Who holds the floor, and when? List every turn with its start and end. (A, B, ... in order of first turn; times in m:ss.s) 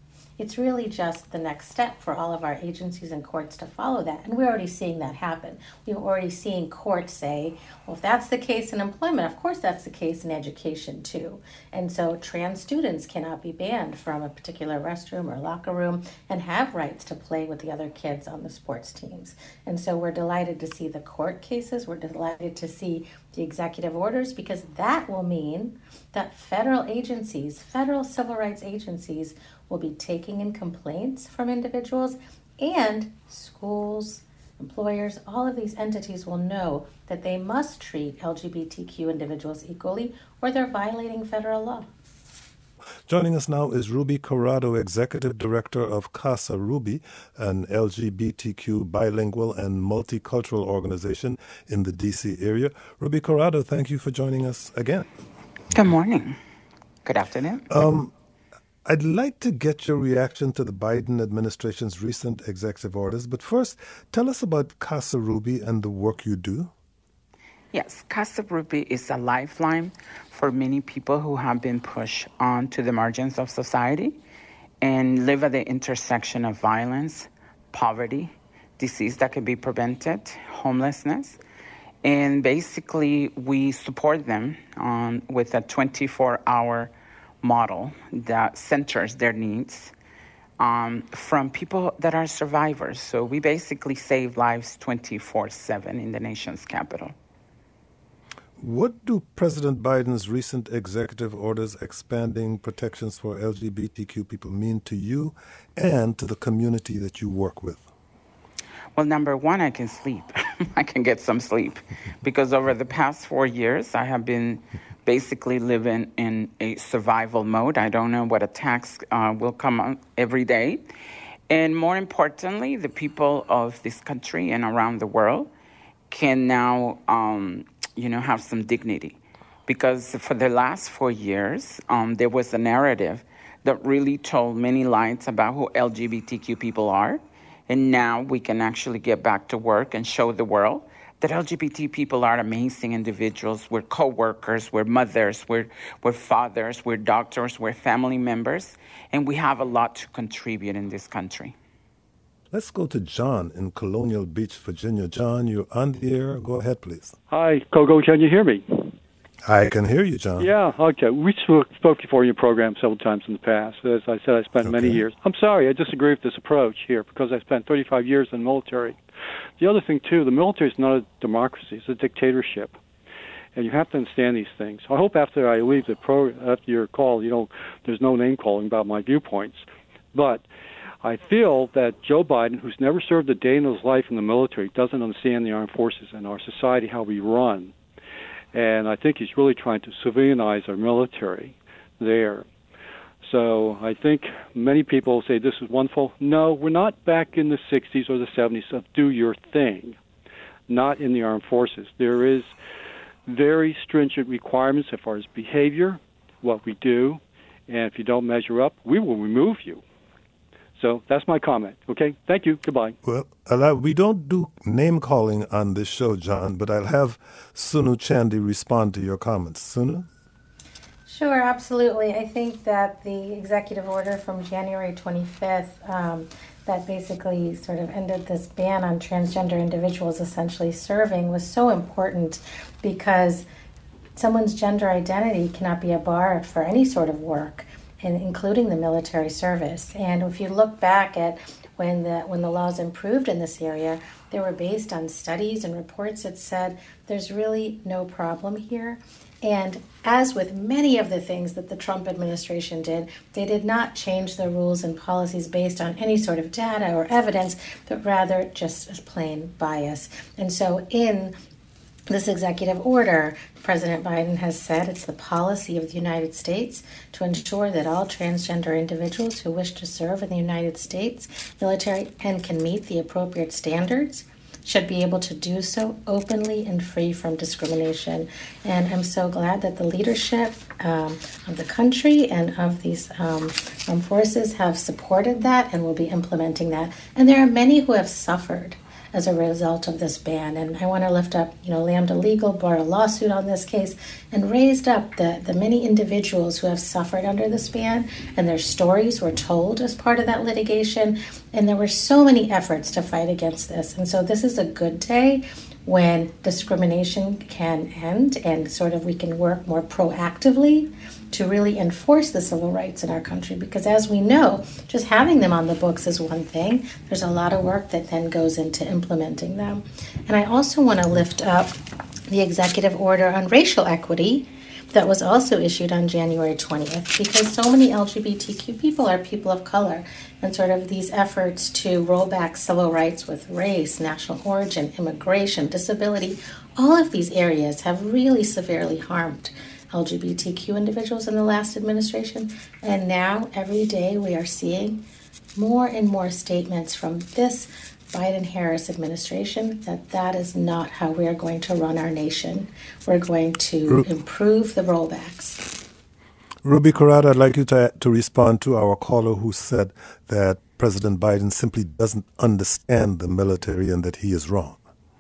0:00.4-0:41.9 A
0:43.1-0:55.1 B
0:55.7-0:56.4 C
0:57.0-0:57.7 C
0:57.7-0:58.1 B
0:58.9-1:06.7 B
1:07.7-1:14.2 C
1:14.8-1:21.4 C
1:22.0-1:26.9 C
1:27.4-1:29.9 C
1:30.6-1:37.2 C
1:38.6-1:47.8 B
1:49.0-2:00.8 C
2:01.5-2:05.5 C
2:06.1-2:31.6 C
2:32.5-2:37.2 B
2:37.3-2:39.0 D
2:39.4-2:40.5 B
2:40.4-2:49.0 D
2:44.6-2:45.0 B
2:49.6-2:52.8 D
2:53.6-3:00.4 D
3:01.0-3:07.7 D
3:08.5-3:12.5 D
3:13.2-3:20.0 D
3:20.7-3:22.5 D
3:23.3-3:29.8 D
3:30.8-3:33.0 D
3:33.0-3:40.1 B
3:41.1-3:53.5 A
3:54.2-4:21.4 A
4:22.1-5:21.8 A
5:22.3-5:45.0 A
5:45.6-5:55.8 A
5:56.6-6:04.8 B